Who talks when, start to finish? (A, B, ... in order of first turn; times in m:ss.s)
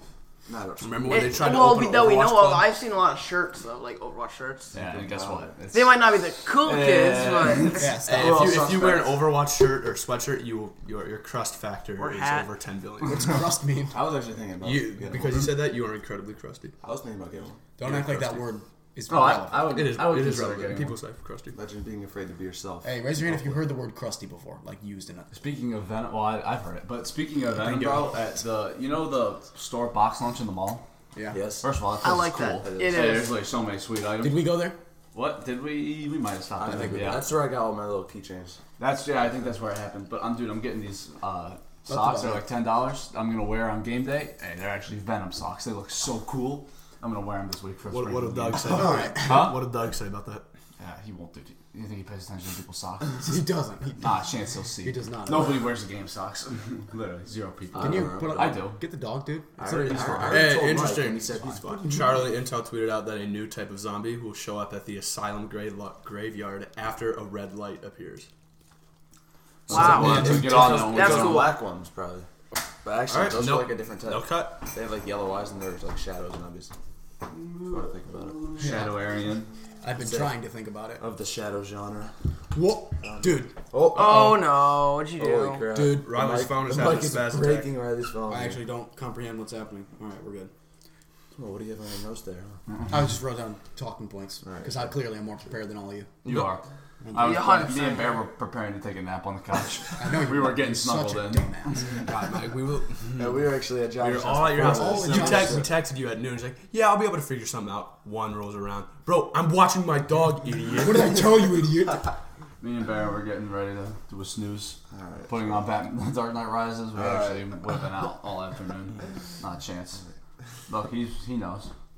0:00.4-0:01.3 A
0:00.8-0:02.7 B
0:01.0-0:04.7 C
0:04.7-0:05.5 A
0:04.7-0:07.8 D
0:05.7-0:07.9 C
0:07.7-0:08.4 E
0:08.0-0:13.4 B
0:08.1-0:09.2 A
0:12.0-0:12.5 C
0:13.0-0:14.0 E
0:13.9-0:15.5 A
0:14.6-0:16.7 B
0:16.8-0:17.6 A
0:17.8-0:19.8 E
0:17.8-0:18.4 B
0:19.1-0:21.0 D
0:19.6-0:21.6 B
0:21.5-0:23.7 A
0:22.8-0:25.3 E
0:25.3-0:30.8 D
0:27.5-0:28.2 B
0:31.1-0:31.4 E
0:31.3-0:31.6 A
0:31.6-0:34.6 D
0:32.0-0:33.4 C
0:32.6-0:33.2 A
0:34.2-0:34.8 E
0:35.1-0:37.3 D
0:36.6-0:38.6 A
0:38.8-0:49.6 D
0:41.9-0:42.5 E
0:47.9-0:50.4 B
0:48.7-0:49.1 A
0:48.7-0:49.2 E
0:50.8-0:53.4 D
0:53.2-0:54.2 E
0:54.0-0:58.8 D
0:54.8-0:55.7 E
0:57.7-0:58.6 A
0:57.8-1:00.6 E
0:59.6-1:02.0 A
0:59.9-1:00.4 D
1:00.2-1:08.3 B
1:09.7-1:11.5 D
1:09.7-1:11.5 C
1:09.7-1:10.9 E
1:09.9-1:12.3 A
1:12.8-1:16.7 A
1:13.1-1:14.6 B
1:17.3-1:19.5 D
1:17.7-1:18.9 A
1:19.8-1:21.1 E
1:19.9-1:20.4 A
1:21.0-1:22.2 A
1:22.5-1:23.6 E
1:23.0-1:24.3 A
1:23.9-1:25.7 C
1:24.0-1:24.4 B
1:25.1-1:28.6 A
1:25.7-1:27.7 B
1:28.3-1:30.5 E
1:31.3-1:32.6 A
1:32.9-1:36.2 E
1:34.4-1:35.0 A
1:36.2-1:42.0 D
1:37.0-1:37.5 E
1:37.2-1:38.1 C
1:40.0-1:41.8 E
1:41.9-1:51.2 B
1:43.2-1:45.7 A
1:44.5-1:45.7 E
1:50.8-1:52.1 E
1:52.6-2:00.0 D
1:54.9-1:55.6 A
1:56.9-1:57.4 A
2:00.7-2:01.7 D